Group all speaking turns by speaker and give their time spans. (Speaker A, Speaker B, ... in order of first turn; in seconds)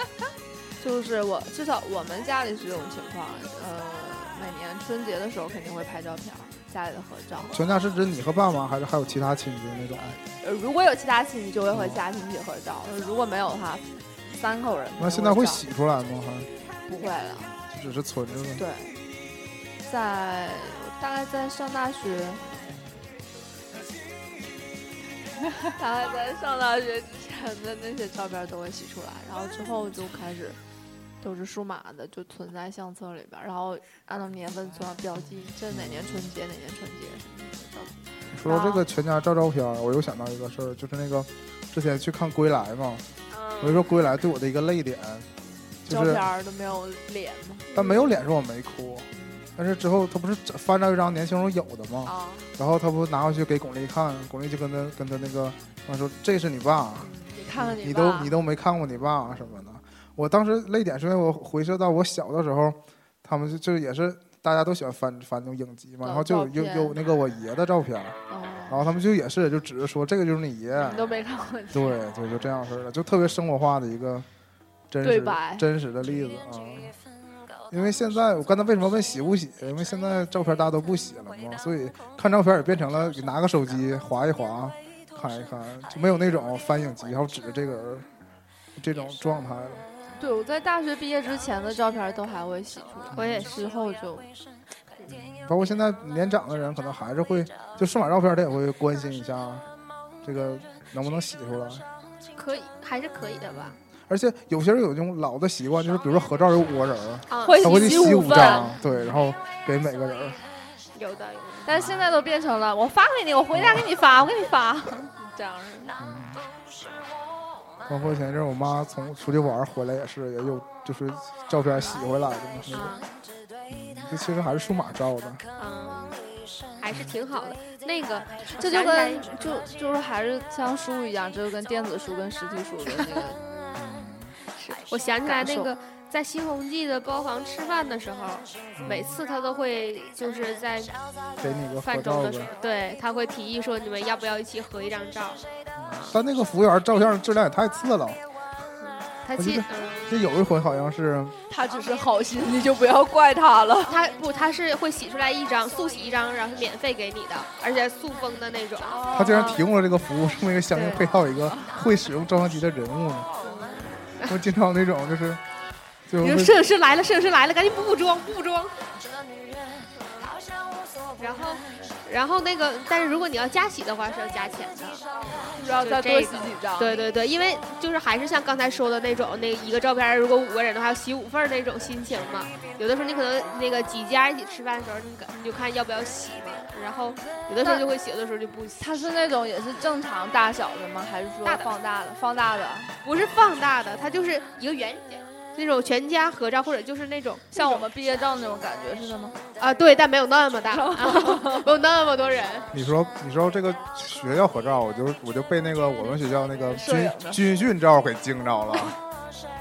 Speaker A: 0.8-7.6, 10.2-15.6, 16.9-17.6, 18.6-19.0, 19.8-22.5, 25.8-30.6, 31.2-38.8, 45.9-47.8, 52.0-52.5, 57.0-58.3, 66.0-67.0, 68.3-68.8, 70.8-72.0, 75.0-75.7, 90.2-94.3, 107.4-108.8, 111.6-116.0, 128.5-133.4, 135.2-135.7, 151.5-154.0, 158.9-159.6, 175.5-177.0, 188.8-192.9, 197.5-199.4, 200.7-201.7, 206.7-207.4
Speaker B: 7.5-10.2, 11.7-12.0, 15.0-16.5, 17.7-18.6, 35.7-36.3, 38.3-43.0, 43.6-45.3, 45.8-46.2, 47.7-68.2, 68.7-71.2, 71.7-74.3, 74.9-77.0, 77.7-88.1, 88.8-89.8, 93.1-93.5, 95.1-99.7, 100.2-101.8, 104.1-110.4, 113.5-113.9, 116.0-116.4, 117.8-123.0, 123.7-125.4, 133.8-134.3, 138.8-139.2, 141.4-142.5, 145.8-148.2, 149.3-151.3, 159.1-163.3, 164.2-165.4, 166.1-166.6, 202.7-209.0
Speaker C: 43.3-43.9, 93.1-93.6, 102.3-103.8, 107.3-108.7, 110.9-111.7, 122.7-123.0, 125.6-126.2, 126.8-129.6, 134.6-140.9, 141.8-146.1, 148.8-150.1, 153.8-159.6, 160.7-161.0, 163.4-164.4, 166.2-168.7, 171.2-175.0, 175.6-188.8, 193.0-197.8, 199.6-202.7